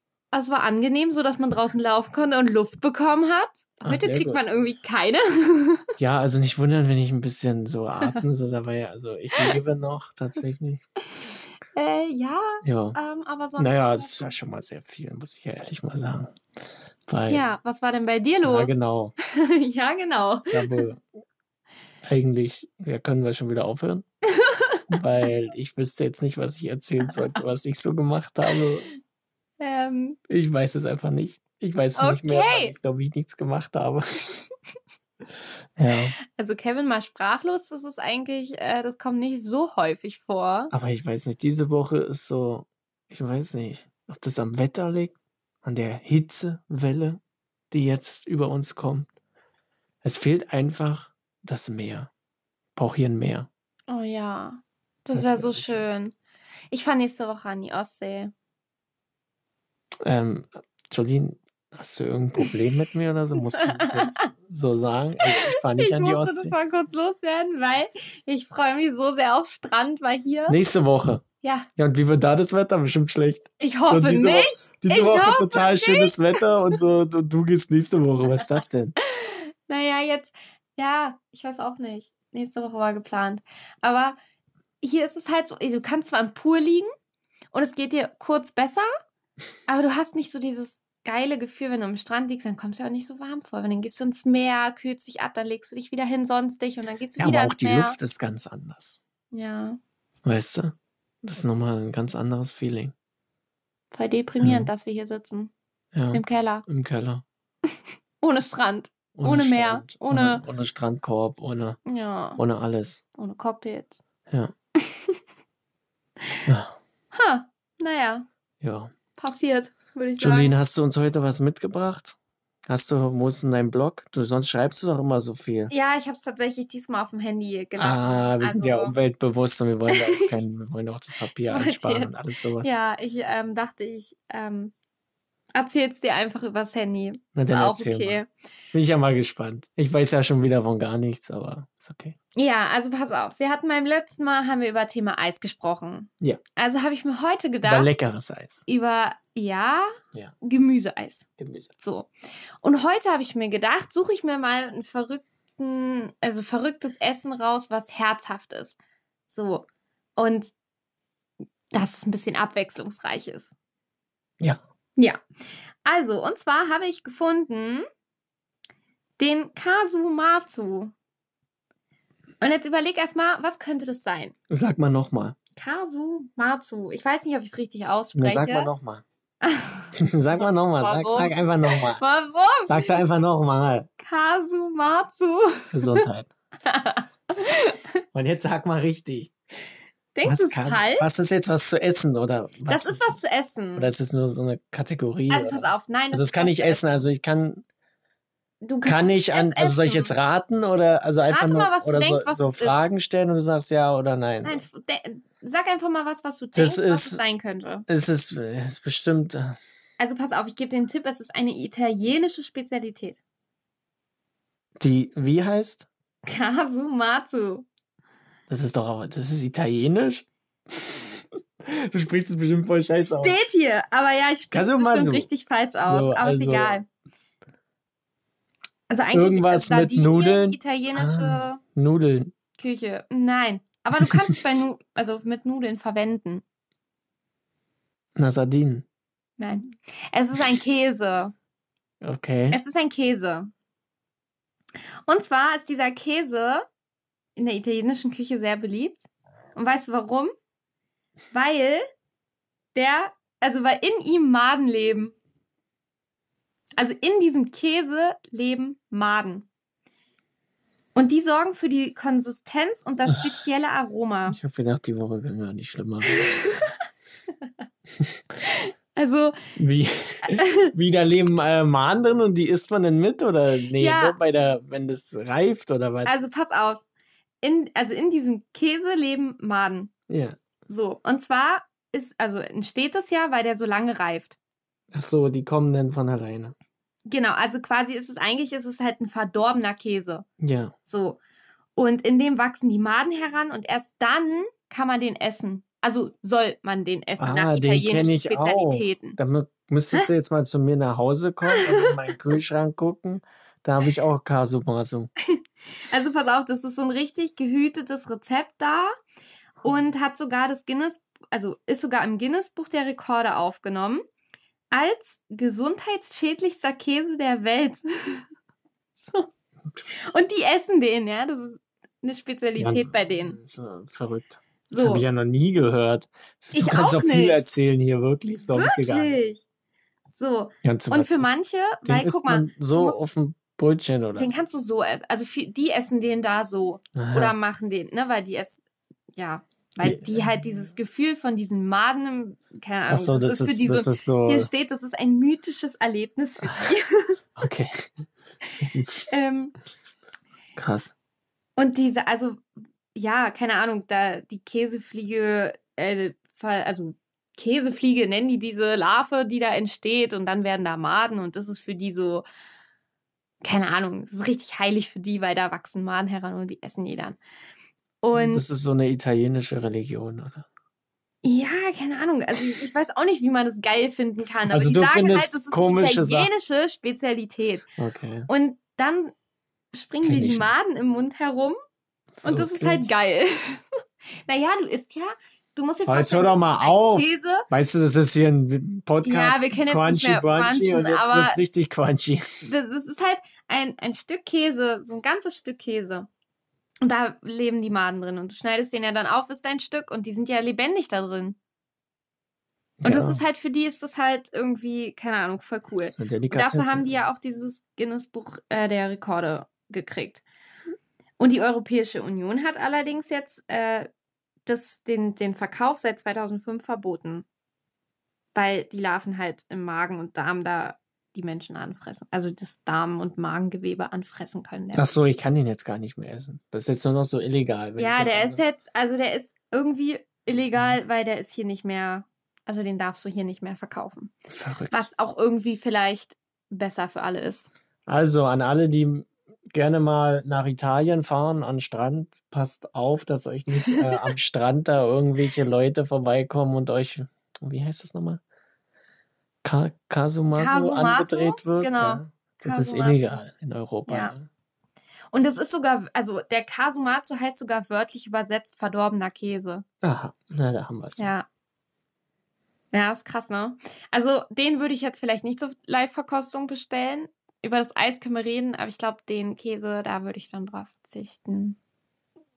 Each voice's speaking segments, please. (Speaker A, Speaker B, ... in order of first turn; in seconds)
Speaker A: 0.3-5.9, 11.1-14.3, 17.3-20.9, 24.3-25.2, 29.6-30.2, 32.0-32.7, 36.3-40.7, 53.9-56.1, 56.7-58.3, 63.4-64.3, 65.2-70.6, 71.4-71.7, 73.6-76.4, 79.0-84.2, 84.8-86.9, 87.5-88.9, 89.7-98.0, 99.3-99.8, 103.9-105.5, 106.1-106.6, 108.2-110.4, 111.8-112.4, 113.1-113.9, 114.8-115.2, 117.1-118.3, 119.1-120.5, 125.7-128.9, 129.9-130.3, 131.3-134.7, 135.5-138.3, 142.3-147.9, 148.7-151.3, 151.8-152.1, 152.6-158.8, 159.3-159.7, 160.2-160.5, 161.7-163.5, 165.8-167.8, 169.2-170.9, 172.4-174.3, 175.5-178.7, 179.4-179.9, 180.8-182.9, 184.0-186.1, 186.6-187.9, 190.1-191.1, 192.7-193.9, 195.3-197.0, 198.6-200.1, 201.3-202.7, 204.4-207.8, 210.0-213.2, 216.2-217.7, 222.9-226.8, 228.9-231.6, 232.6-236.4, 239.4-241.3, 242.5-243.5, 245.1-246.7, 247.3-250.3, 251.3-251.8, 252.7-255.1, 256.8-259.5, 260.9-264.4, 266.1-266.7, 268.4-269.4, 270.2-270.7, 273.7-274.1, 276.0-276.8, 277.4-279.9, 280.7-284.4, 287.1-290.2, 290.9-291.2, 291.8-299.2, 301.5-301.9, 305.3-308.9, 309.6-314.0, 314.7-318.3, 319.0-319.3, 320.1-323.4, 324.7-325.0, 326.5-327.5, 328.5-329.4, 330.1-333.0, 334.2-338.6, 339.1-347.2, 349.1-349.5, 351.6-362.2, 363.4-367.2, 368.0-368.4, 371.2-377.6, 378.3-379.1, 379.7-381.6, 382.2-383.6, 384.2-387.5, 389.0-391.4, 392.4-396.1, 396.8-401.4, 402.8-410.2, 411.2-413.9, 414.4-417.2, 418.3-425.0, 427.8-434.1, 434.7-437.5, 450.3-453.1, 453.9-454.1, 455.1-459.6, 461.0-461.3, 462.7-471.6
Speaker B: 3.8-4.4, 6.0-10.8, 12.6-13.0, 13.6-16.4, 17.1-17.4, 18.4-19.1, 20.5-21.0, 22.0-24.1, 24.9-28.9, 30.3-34.4, 35.8-36.1, 40.7-47.2, 47.7-49.1, 50.0-52.1, 52.8-53.5, 55.1-55.8, 60.0-66.5, 70.5-71.2, 71.8-79.0, 97.2-99.0, 100.2-102.9, 104.4-104.7, 105.9-107.2, 109.1-111.8, 112.4-113.0, 114.3-114.5, 116.5-116.7, 118.6-118.9, 120.2-125.7, 127.8-132.7, 137.3-138.2, 138.7-142.2, 147.6-148.7, 151.4-151.8, 174.5-175.4, 178.2-179.0, 179.9-182.0, 182.6-183.9, 185.7-186.3, 188.1-189.3, 190.2-193.2, 193.7-197.6, 198.8-204.7, 206.5-207.2, 207.9-209.6, 214.8-215.9, 218.5-223.4, 224.5-225.3, 225.8-226.8, 229.1-232.3, 238.2-238.8, 242.0-242.6, 264.3-266.4, 269.6-276.1, 280.1-280.4, 284.9-286.5, 290.4-290.7, 297.2-305.1, 322.6-329.2, 330.6-334.3, 336.9-337.3, 339.8-340.2, 342.9-344.5, 347.4-347.9, 348.6-349.1, 350.6-350.9, 368.1-370.5, 374.5-376.3, 377.8-378.3, 380.0-380.5, 382.2-382.9, 385.9-392.5, 402.8-403.2, 405.9-407.0, 424.7-428.4, 434.3-434.9, 437.9-448.2, 449.4-454.3, 459.8-461.1